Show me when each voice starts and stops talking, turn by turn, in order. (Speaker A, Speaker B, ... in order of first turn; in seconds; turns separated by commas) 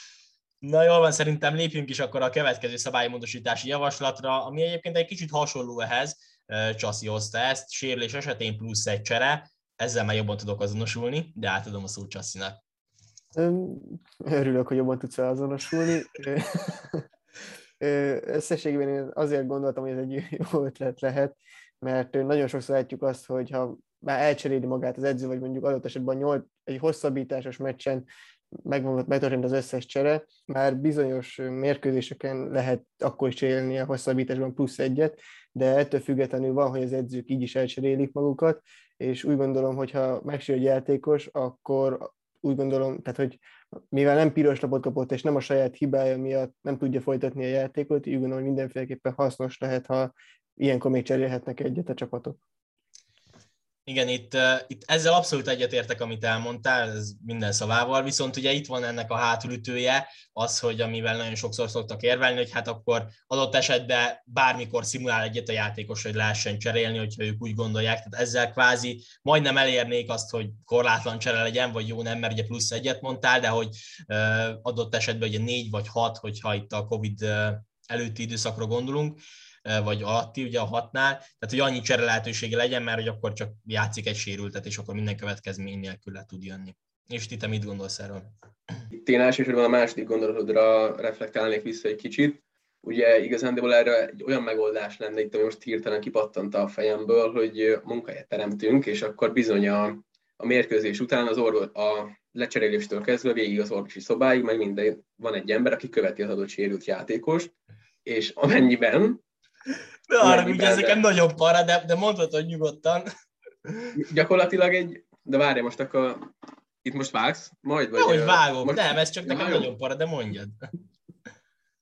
Speaker A: 0.6-12.6, Speaker B: 13.3-17.0, Speaker B: 17.8-28.1, Speaker B: 28.6-43.4, Speaker B: 43.9-52.4, Speaker A: 53.9-88.3, Speaker C: 88.9-107.5, Speaker C: 108.0-109.2, Speaker A: 110.1-113.1, Speaker C: 110.2-111.0, Speaker A: 113.7-114.0, Speaker C: 114.0-116.3, Speaker C: 116.8-119.7, Speaker A: 118.0-120.6